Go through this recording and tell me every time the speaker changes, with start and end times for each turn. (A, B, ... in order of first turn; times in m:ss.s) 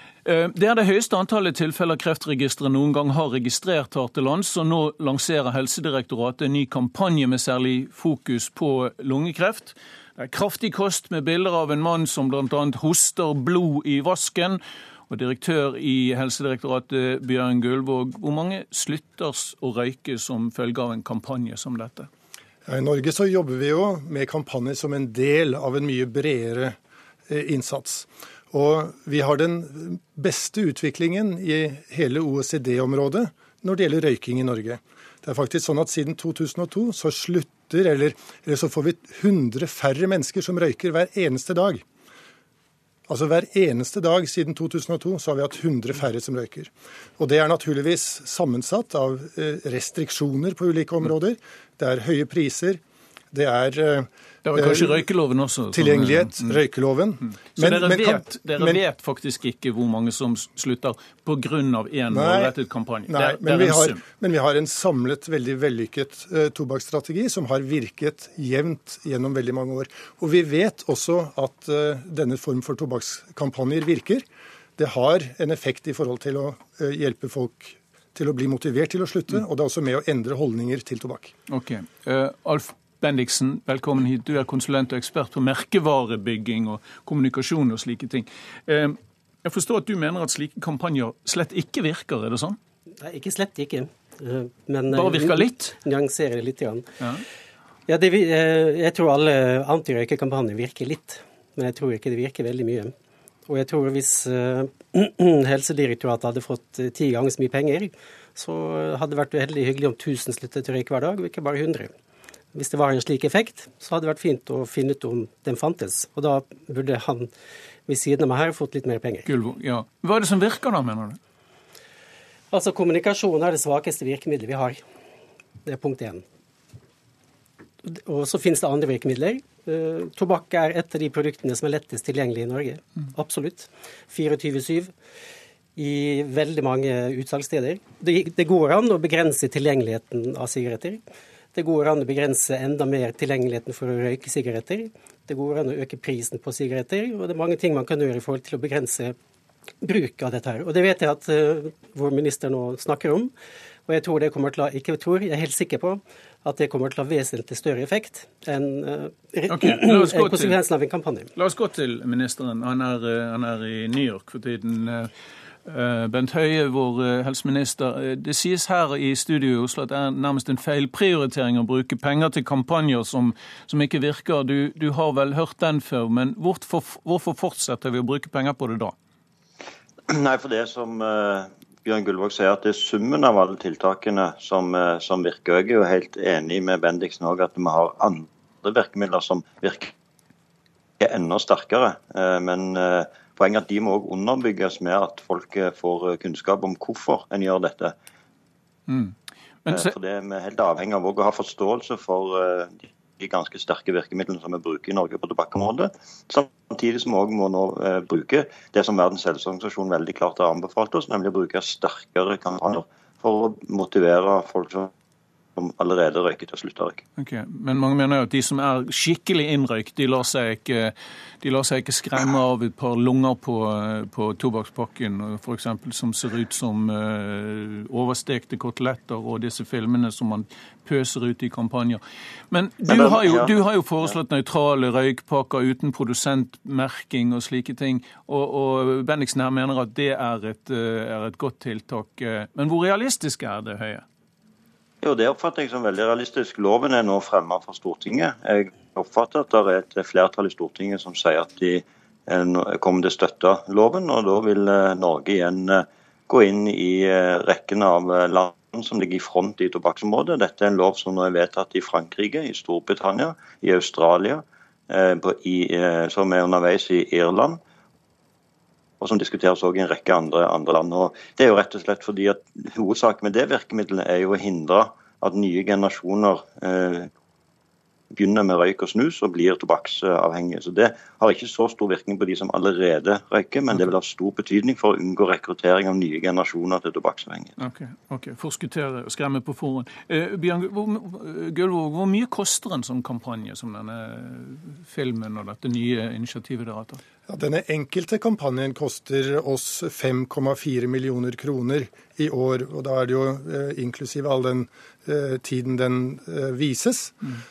0:00.2-0:22.1 A
0:22.6-0:26.8 B
0:27.3-0:41.8 B
0:43.1-0:52.8 B
0:53.3-0:55.0 B
0:54.4-0:56.6 A
0:55.7-0:58.8 B
0:57.2-1:04.0 A
1:02.1-1:02.5 B
1:03.1-1:21.3 B
1:21.5-1:32.6 A
1:33.0-1:36.9 C
1:34.9-1:35.7 A
1:37.9-1:42.9 C
1:43.5-1:51.9 C
1:52.5-1:57.3 C
1:57.8-1:59.3 C
1:59.2-2:01.2 A
2:02.5-2:04.8 C
2:05.6-2:06.2 C
2:07.8-2:14.9 C
2:15.8-2:21.0 C
2:21.5-2:29.2 C
2:29.8-2:33.3 C
2:33.8-2:41.3 C
2:39.5-2:40.6 A
2:41.4-2:45.1 A
2:45.6-2:58.9 A
3:00.1-3:09.9 D
3:11.0-3:17.9 D
3:18.9-3:19.9 A
3:19.7-3:34.9 D
3:35.6-3:37.0 D
3:37.2-4:04.0 A
3:52.8-3:53.5 D
4:05.0-4:27.6 D
4:29.0-4:37.1 D
4:38.1-4:47.5 D
4:47.6-4:57.0 A
4:57.3-5:07.2 B